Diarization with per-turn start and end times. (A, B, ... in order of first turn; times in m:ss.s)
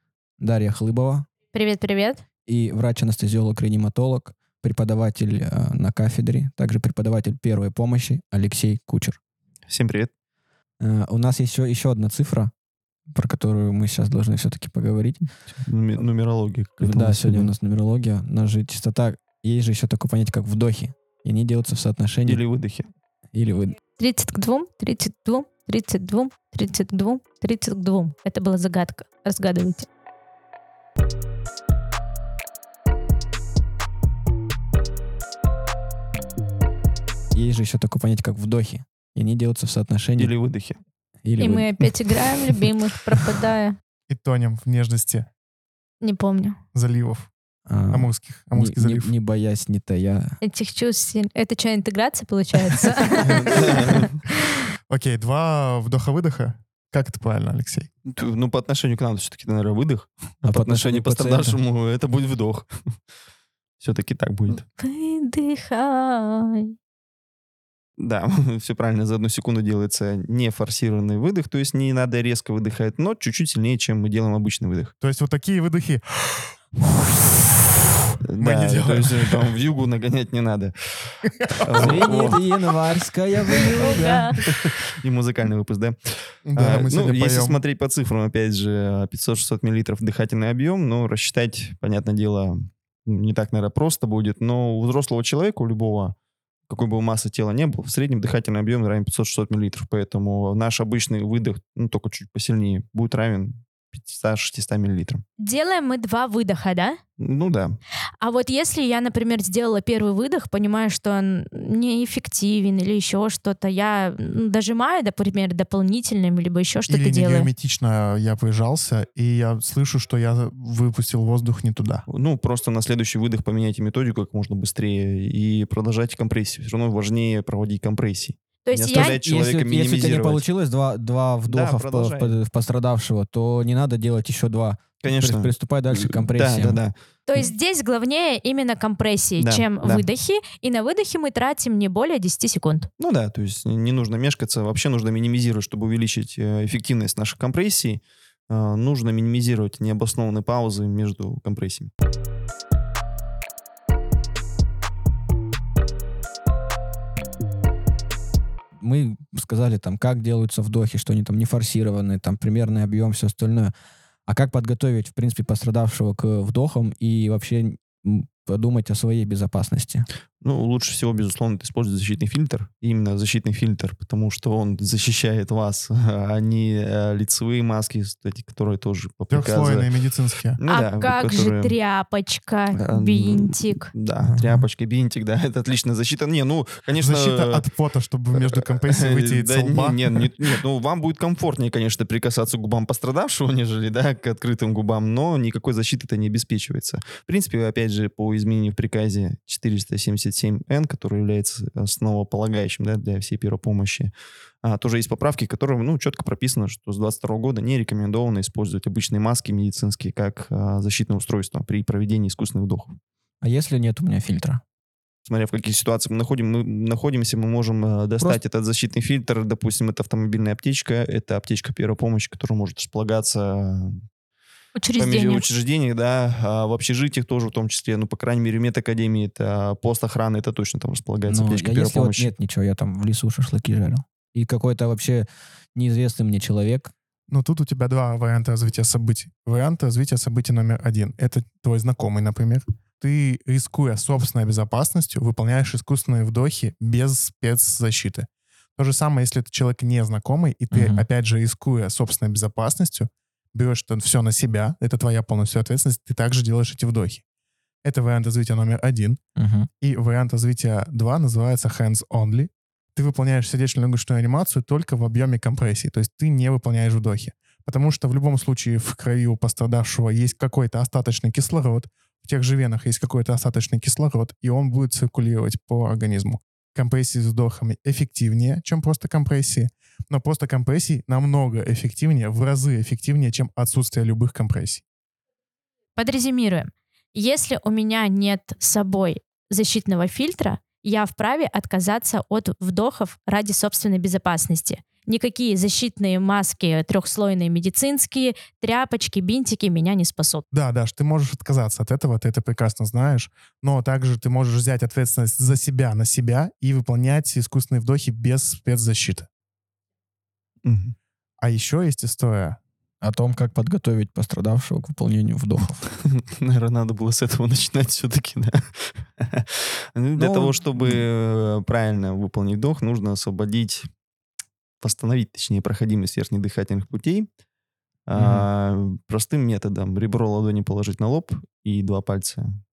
0:00.4-0:01.3 A
0:01.5-0:02.2 B
0:02.5-0:09.2 A
0:09.7-0:10.1 C
0:10.8-0:12.5 A
0:13.1-0:15.3 A
0:15.6-0:17.5 C
0:16.8-0:22.4 A
0:22.2-0:22.9 C
0:23.3-0:23.8 A
0:24.0-0:29.9 B
0:37.3-0:40.3 A
0:40.2-0:40.8 C
0:41.2-0:41.7 A
0:41.4-0:43.8 B
0:44.1-0:45.3 D
0:46.0-0:46.6 B
0:46.7-0:47.3 D
0:47.7-0:50.4 A
0:47.9-0:49.1 D
0:50.4-0:53.9 B
0:53.2-0:54.2 C
0:54.9-0:57.9 D
0:58.1-1:02.7 C
1:00.4-1:01.6 A
1:03.8-1:04.6 C
1:04.6-1:06.7 B
1:08.0-1:14.9 C
1:15.0-1:16.6 D
1:18.2-1:22.4 C
1:18.4-1:19.5 D
1:21.2-1:22.4 D
1:21.8-1:24.3 A
1:23.6-1:24.4 B
1:24.5-1:26.0 C
1:26.5-1:27.6 D
1:26.6-1:36.2 C
1:36.7-1:45.2 C
1:45.4-1:47.0 B
1:47.2-1:47.8 C
1:48.2-1:57.5 B
1:56.9-2:02.0 D
2:02.1-2:10.4 C
2:08.7-2:09.2 B
2:08.9-2:16.8 A
2:11.5-2:12.4 C
2:15.0-2:17.4 C
2:17.3-2:22.9 B
2:19.4-2:20.1 C
2:23.0-2:31.9 C
2:38.8-2:43.7 A
2:44.3-2:50.1 A
2:50.4-2:59.9 C
2:59.3-3:00.6 D
3:00.6-3:01.8 C
3:00.7-3:03.9 B
3:02.8-3:07.7 C
3:04.2-3:04.6 D
3:07.0-3:10.3 D
3:08.3-3:24.1 C
3:24.6-3:33.0 C
3:33.4-3:34.6 A
3:35.2-3:44.0 C
3:44.8-3:45.5 B
3:45.0-3:52.3 C
3:51.3-3:56.9 A
3:57.3-4:17.2 D
4:10.7-4:11.0 A
4:17.8-4:19.2 D
4:19.4-4:19.7 A
4:19.8-4:44.8 D
4:46.0-5:00.4 B
5:00.5-5:09.3 D
5:10.6-5:11.0 C
5:11.4-5:12.6 D
5:13.0-5:15.8 A
5:16.1-5:23.9 C
5:20.2-5:21.0 A
5:24.8-5:27.3 C
5:28.1-5:32.5 C
5:28.2-5:28.5 A